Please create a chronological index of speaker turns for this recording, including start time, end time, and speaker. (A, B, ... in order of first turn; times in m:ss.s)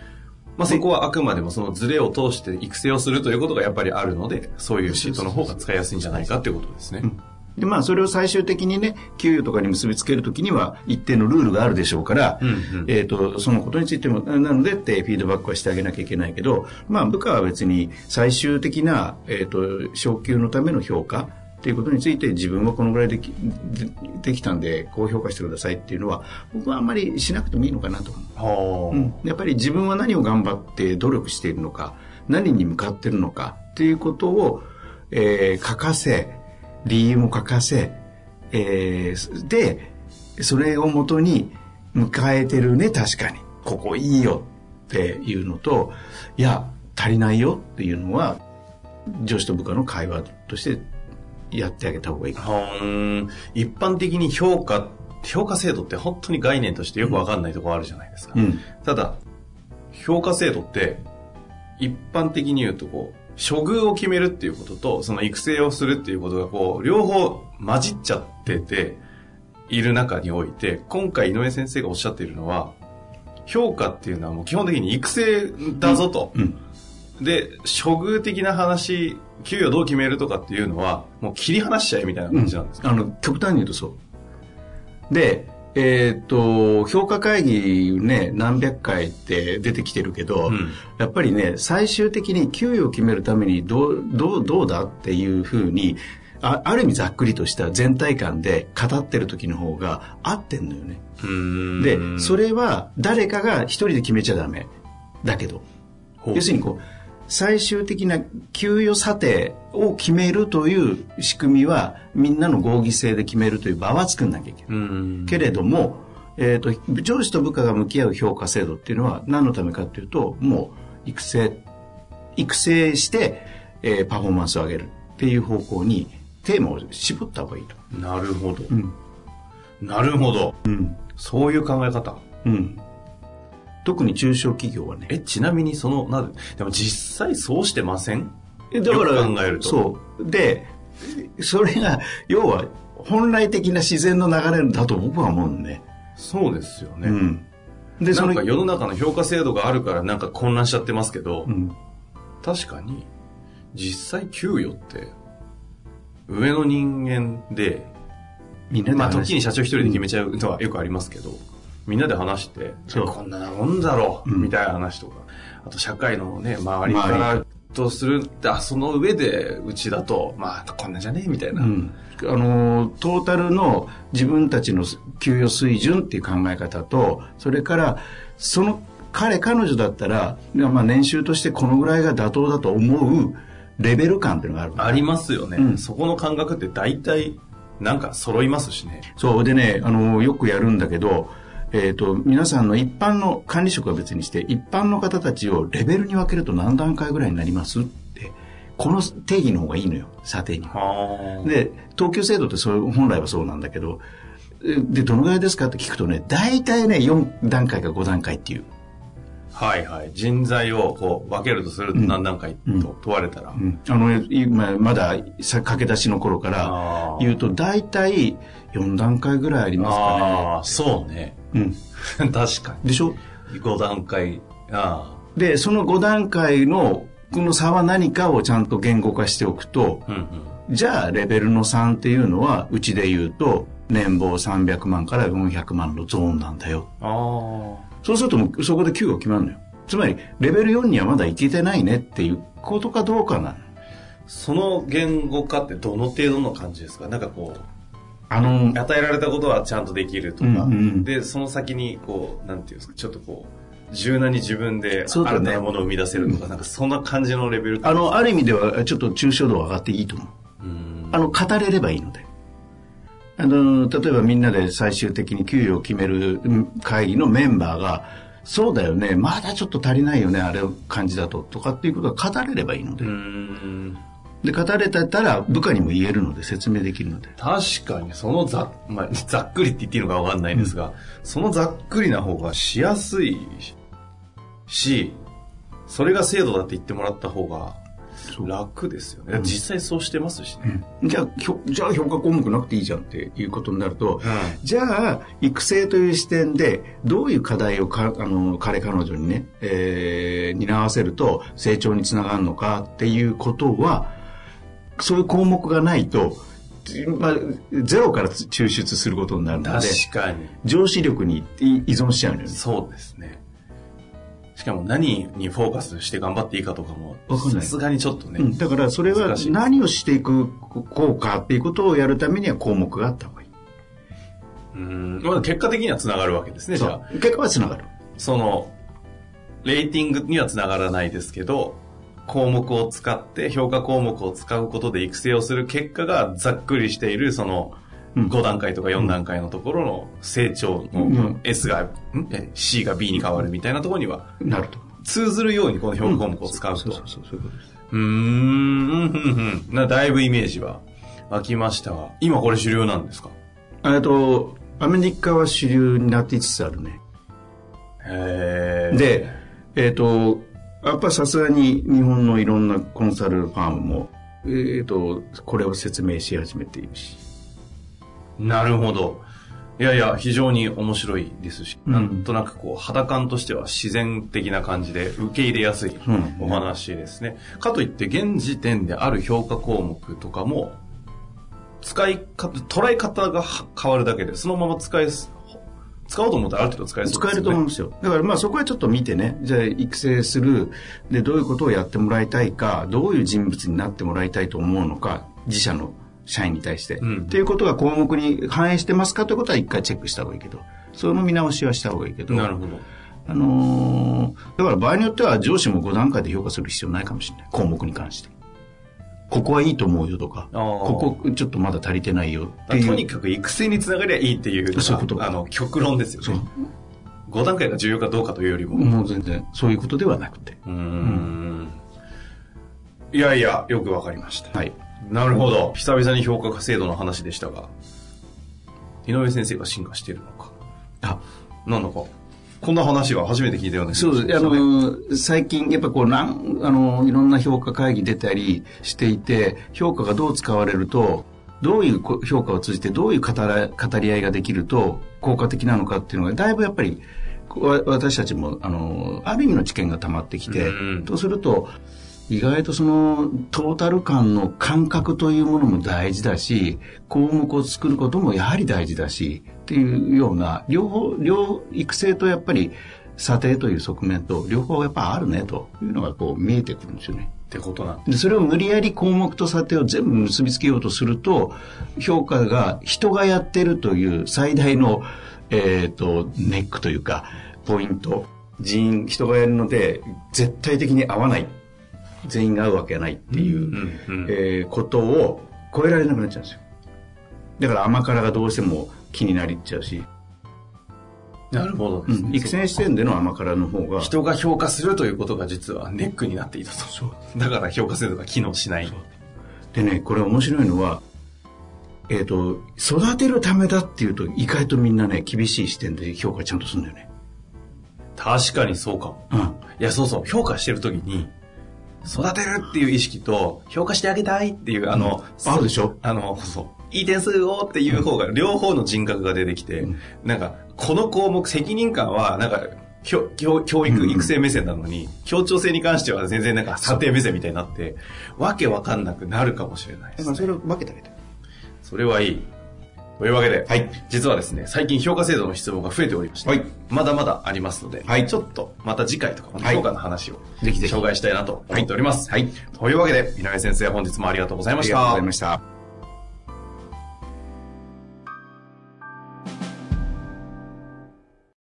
0:00.6-0:07.1 A
0:04.9-0:05.6 B
0:07.0-0:28.3 B
0:12.4-0:12.9 A
0:28.4-0:29.2 A
0:28.9-0:38.0 B
0:38.5-0:48.4 B
0:49.1-0:50.8 B
0:51.5-0:52.4 B
0:52.4-0:59.2 A
0:58.3-0:58.6 B
0:59.9-1:01.0 A
1:01.8-1:09.0 A
1:09.7-1:12.7 A
1:13.4-1:16.4 A
1:15.8-1:16.6 B
1:17.2-1:22.8 A
1:22.3-1:24.0 B
1:25.1-1:41.0 B
1:30.4-1:30.8 A
1:41.2-1:42.4 A
1:41.8-1:44.7 B
1:45.2-1:45.6 B
1:46.3-1:54.7 B
1:54.7-1:55.5 A
1:55.3-2:01.6 B
2:02.4-2:07.8 B
2:07.9-2:08.7 A
2:08.7-2:08.9 B
2:09.8-2:10.6 A
2:10.6-2:11.0 B
2:11.1-2:12.2 A
2:12.4-2:12.8 B
2:13.8-2:15.1 B
2:15.1-2:19.8 A
2:18.7-2:25.8 B
2:26.2-2:27.2 A
2:27.0-2:27.5 B
2:28.0-2:28.4 B
2:28.1-2:31.5 A
2:31.4-2:31.8 B
2:32.4-2:33.1 A
2:33.7-2:35.1 A
2:36.3-2:37.9 A
2:38.7-2:40.0 B
2:38.9-2:51.7 A
2:42.9-2:43.2 B
2:44.2-2:44.5 B
2:46.8-2:47.4 B
2:51.5-3:05.8 B
3:04.8-3:09.0 A
3:09.2-3:20.7 B
3:20.7-3:21.5 A
3:21.4-3:24.0 B
3:24.6-3:28.7 B
3:29.5-3:33.6 A
3:31.9-3:32.9 B
3:33.5-3:40.6 B
3:36.6-3:37.4 A
3:39.8-3:41.4 A
3:41.5-3:41.8 B
3:42.0-3:45.2 A
3:42.8-3:43.2 B
3:45.4-3:50.1 B
3:50.1-3:50.6 A
3:50.7-3:56.9 B
3:57.0-3:57.9 A
3:58.0-4:03.7 B
4:04.3-4:07.6 A
4:08.3-4:08.8 B
4:08.4-4:18.2 A
4:10.4-4:11.1 B
4:15.1-4:15.6 B
4:17.8-4:20.3 B
4:20.6-4:21.3 A
4:21.1-4:22.2 B
4:23.4-4:33.1 B
4:33.0-4:34.0 A
4:34.4-4:37.3 B
4:37.4-4:43.7 A
4:44.7-4:45.2 A
4:45.9-4:47.8 A
4:48.4-4:50.8 A
4:50.6-5:04.1 B
4:54.2-4:54.6 A
5:05.0-5:10.0 B
5:09.5-5:10.5 A
5:10.6-5:12.6 B
5:12.5-5:13.4 A
5:14.6-5:19.6 A
5:17.3-5:17.8 B
5:18.4-5:23.5 B
5:24.7-5:27.1 A
5:26.7-5:27.9 B
5:28.2-5:28.7 A
5:29.6-5:44.3 A
5:40.9-5:41.4 B
5:44.4-5:44.8 B
5:45.0-5:47.0 A
5:46.0-5:47.6 B
5:47.9-5:53.3 A
5:53.8-5:57.0 B
5:58.0-5:59.4 A
5:58.9-6:07.2 B
6:08.4-6:09.2 A
6:09.8-6:20.8 A
6:11.9-6:12.3 B
6:16.0-6:16.6 B
6:21.8-6:27.6 A
6:27.0-6:42.5 B
6:37.0-6:37.4 A
6:42.3-6:42.8 A
6:43.2-6:48.3 B
6:49.3-6:53.0 B
6:50.5-6:51.2 A
6:52.7-6:56.5 A
6:54.7-6:55.3 B
6:57.3-6:58.9 A
6:58.7-7:01.3 B
7:00.6-7:01.8 A
7:03.1-7:07.7 A
7:09.0-7:10.5 A
7:11.6-7:14.7 A
7:13.9-7:31.7 B
7:30.4-7:31.1 A
7:32.3-7:47.3 B
7:47.5-7:48.1 A
7:48.0-8:01.5 B
8:02.2-8:06.6 B
8:03.3-8:04.3 A
8:07.6-8:10.0 B
8:11.5-8:12.9 A
8:12.1-8:14.1 B
8:14.0-8:19.0 A
8:19.7-8:21.0 B
8:22.1-8:27.1 B
8:28.2-8:31.3 A
8:29.3-8:29.6 B
8:32.0-8:50.5 A
8:34.9-8:36.0 B
8:43.9-8:44.3 B
8:50.2-8:51.1 B
8:51.8-8:52.5 A
8:53.2-9:05.2 A
8:53.6-8:53.9 B
8:58.0-8:58.3 B
8:59.6-8:59.8 B
9:00.6-9:01.0 B
9:01.7-9:02.5 B
9:04.8-9:05.6 B